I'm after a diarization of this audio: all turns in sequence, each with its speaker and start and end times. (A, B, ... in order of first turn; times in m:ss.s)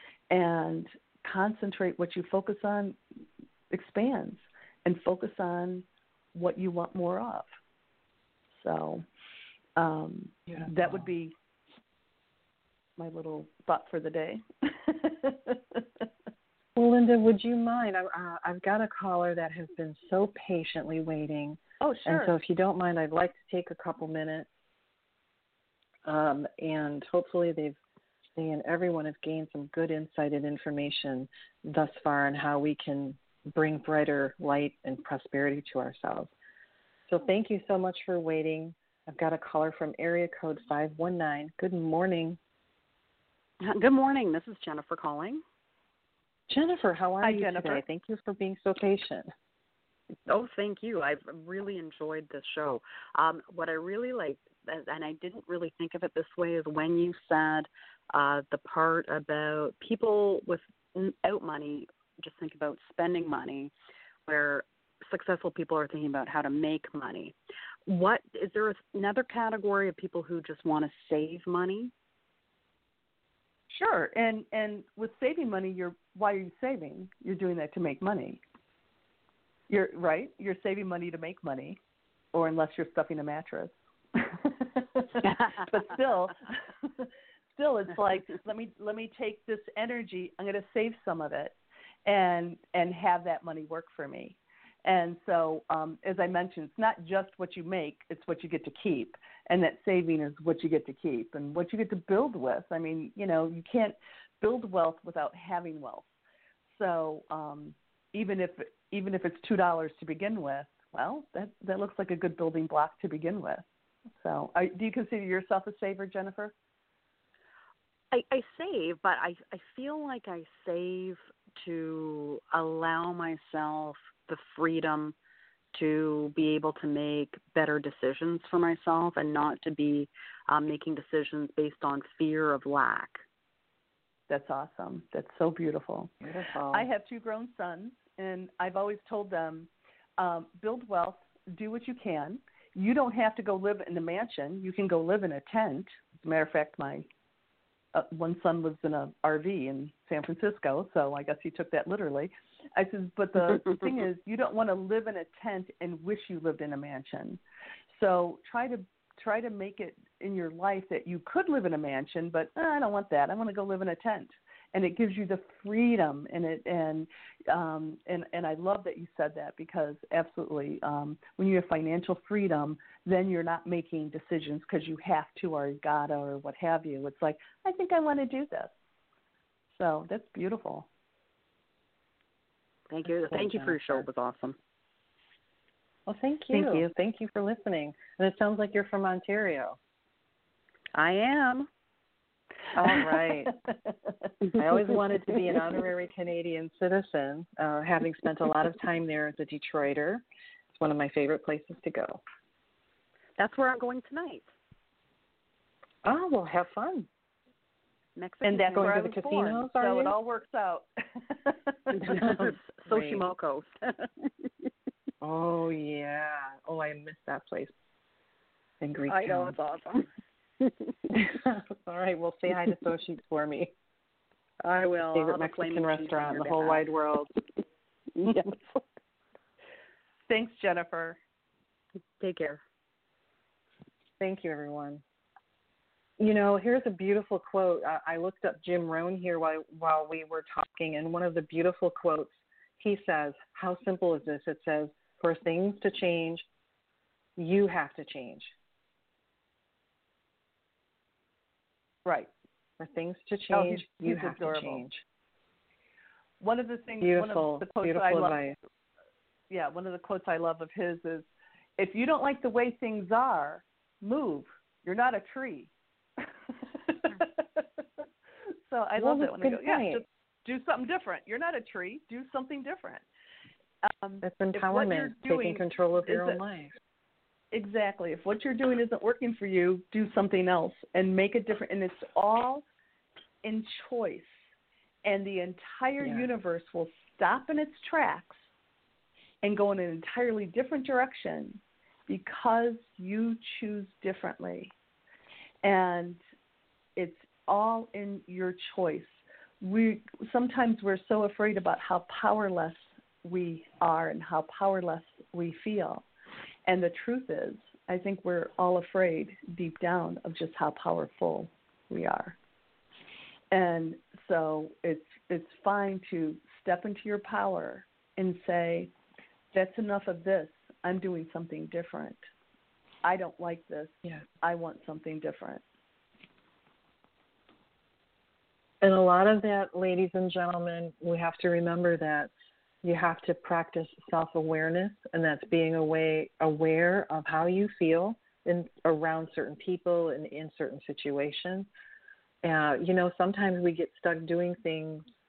0:00.3-0:03.0 A
0:03.7-0:07.5 A
0:08.5-0:09.0 A
0:09.8-0:11.3 A
0:10.5-0:11.0 B
0:13.0-0:15.8 A
0:16.8-0:24.5 B
0:21.8-0:22.3 A
0:26.0-0:27.8 B
0:28.4-0:36.3 B
0:37.1-0:42.4 B
0:43.6-0:45.4 C
0:46.5-0:49.3 B
0:47.2-0:47.8 A
0:50.3-1:03.7 C
1:04.2-1:07.3 C
1:07.8-1:11.9 C
1:13.7-1:18.4 A
1:19.7-1:21.8 A
1:22.3-1:46.0 A
1:25.4-1:25.8 C
1:46.8-1:53.6 A
1:54.2-1:56.5 A
1:58.1-2:05.2 C
2:05.7-2:13.2 C
2:14.3-2:16.1 A
2:16.2-2:16.9 B
2:16.7-2:27.0 A
2:27.9-2:37.4 A
2:37.9-2:58.7 A
2:59.7-3:00.9 A
3:02.9-3:04.6 C
3:03.2-3:04.0 B
3:06.0-3:09.8 B
3:06.5-3:06.9 C
3:10.9-3:11.7 C
3:12.7-3:13.6 B
3:14.5-3:22.2 B
3:23.4-3:24.5 C
3:26.0-3:27.1 B
3:28.2-3:29.4 C
3:28.4-3:30.9 A
3:28.7-3:30.1 B
3:31.9-3:34.1 C
3:32.0-3:33.3 B
3:35.2-3:37.7 B
3:38.8-3:39.6 B
3:39.1-3:40.1 C
3:41.1-3:43.7 B
3:44.6-3:46.8 C
3:45.1-3:47.3 B
3:48.1-3:48.8 C
3:50.3-3:51.2 A
3:52.2-3:52.6 C
3:54.2-3:55.0 B
3:56.2-4:06.4 B
4:07.4-4:08.5 B
4:12.0-4:12.3 A
4:12.8-4:15.0 B
4:13.5-4:14.8 A
4:16.4-4:18.4 A
4:17.0-4:18.6 B
4:19.5-4:21.3 A
4:21.8-4:25.7 A
4:26.9-4:27.6 A
4:28.7-4:33.0 A
4:29.0-4:30.0 B
4:33.8-4:36.4 A
4:34.2-4:36.7 B
4:37.5-4:42.6 A
4:43.4-4:44.4 A
4:45.0-4:48.5 A
4:49.4-4:54.7 A
4:55.6-4:56.2 A
4:57.0-5:06.0 A
5:06.6-5:12.4 A
5:13.5-5:18.9 A
5:19.5-5:22.3 A
5:23.0-5:25.6 A
5:28.8-5:32.3 B
5:32.8-5:41.7 B
5:42.4-5:45.0 B